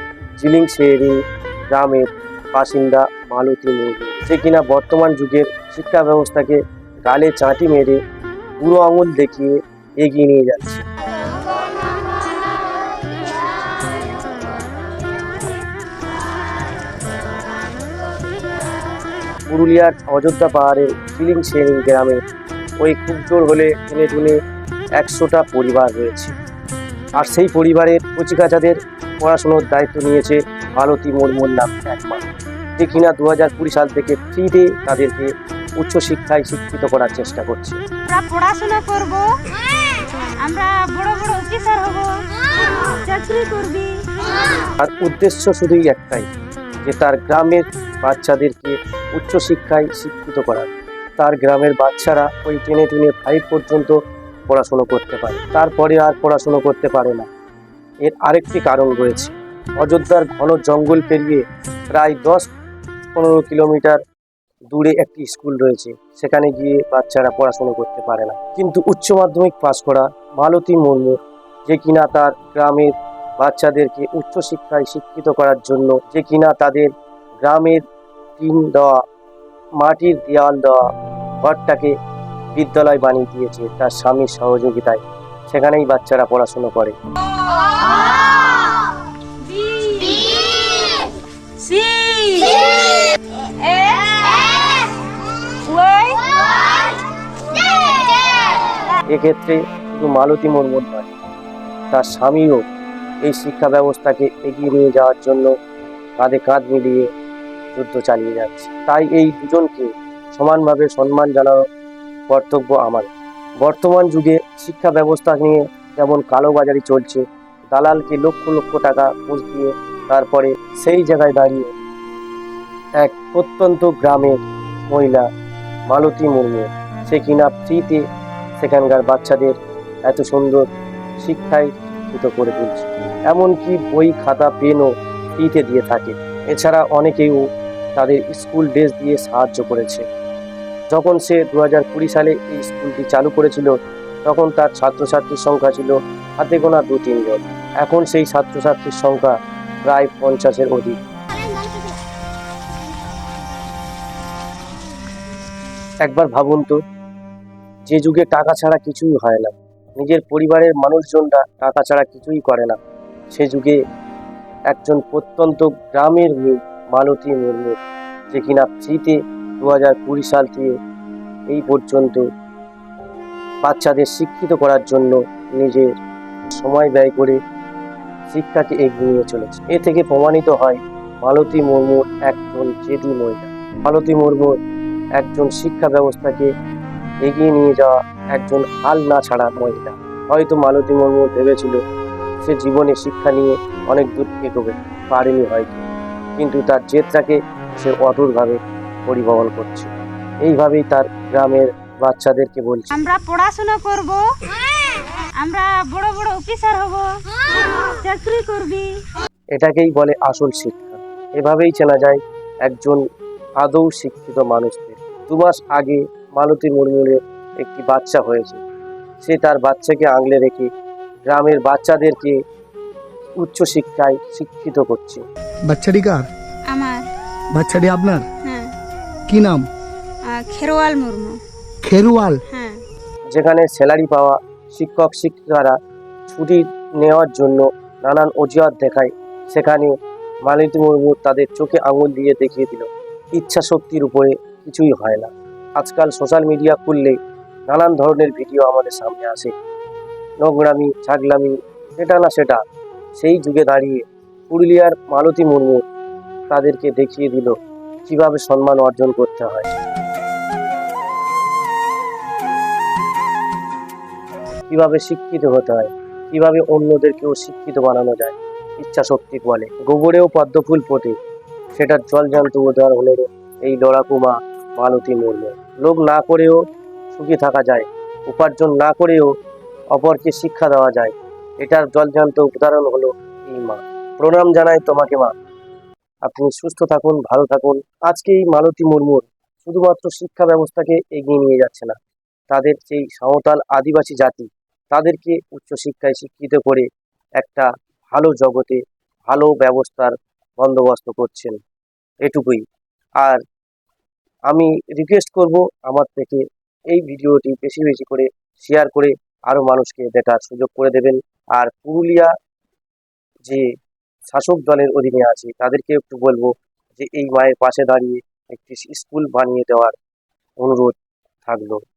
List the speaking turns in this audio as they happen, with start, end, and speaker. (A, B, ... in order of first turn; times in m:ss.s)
0:00.4-0:01.2 A
0:01.7-0:08.0 A
0:08.6-0:10.8 A
0:19.5-0:22.2 A
0:22.8-0:24.4 A
0:25.0-0:26.3 A
0:27.2-0:32.2 A
0:32.8-0:37.8 A
0:38.0-0:39.2 B
0:40.4-0:42.1 B
0:43.0-0:44.0 B
0:44.8-0:46.2 A
0:46.8-0:54.0 A
0:54.5-0:57.3 A
0:58.0-1:02.5 A
1:03.1-1:04.0 A
1:04.7-1:16.9 A
1:17.4-1:17.8 A
1:18.4-1:19.0 A
1:19.8-1:20.8 A
1:21.4-1:21.9 A
1:22.5-1:26.9 A
1:29.4-1:31.1 B
1:31.6-1:33.0 B
1:33.6-1:34.7 B
1:35.6-1:36.2 B
1:39.1-1:41.1 A
1:41.9-1:42.6 A
1:43.2-1:45.5 A
1:46.2-1:47.1 A
1:47.7-1:51.6 A
1:52.3-1:53.1 A
1:53.6-2:01.7 A
2:03.0-2:04.4 A
2:04.9-2:05.2 A
2:05.9-2:08.0 A
2:08.6-2:09.6 A
2:10.1-2:10.6 A
2:11.2-2:17.4 A
2:18.0-2:20.0 A
2:20.9-2:23.7 A
2:24.2-2:29.3 A
2:29.8-2:31.0 A
2:31.6-2:31.8 B
2:36.0-2:36.8 A
2:37.9-2:42.8 A
2:43.3-2:43.8 A
2:44.7-2:47.8 A
2:48.3-2:50.7 A
2:51.5-2:52.2 A
2:53.6-2:55.9 A
2:56.5-2:57.4 A
2:58.3-3:04.5 A
3:05.2-3:06.5 A
3:07.2-3:11.8 A
3:12.4-3:15.8 A
3:16.4-3:19.9 A
3:20.4-3:23.0 A
3:22.9-3:24.2 B
3:25.4-3:27.1 B
3:28.0-3:28.9 B
3:29.5-3:33.0 A
3:33.6-3:38.6 A
3:39.2-3:40.7 A
3:41.3-3:42.4 A
3:43.4-3:45.2 A
3:45.6-3:46.3 C
3:46.7-3:47.0 B
3:47.5-3:48.3 C
3:48.4-3:48.7 B
3:49.3-3:49.7 C
3:50.2-3:51.4 B
3:51.8-3:52.4 C
3:52.5-3:52.8 B
3:53.3-3:55.8 A
3:56.3-3:59.9 A
4:00.4-4:07.2 A
4:07.7-4:09.5 A
4:10.4-4:12.6 A
4:13.2-4:15.8 A
4:16.5-4:19.7 A
4:24.7-4:31.2 A
4:31.7-4:36.6 A
4:37.1-4:39.3 A
4:39.9-4:45.3 A
4:46.2-4:52.0 A
4:52.5-4:56.8 A
4:57.4-5:01.6 A
5:02.2-5:02.6 A
5:04.5-5:12.3 A
5:14.3-5:19.9 A
5:20.6-5:21.8 A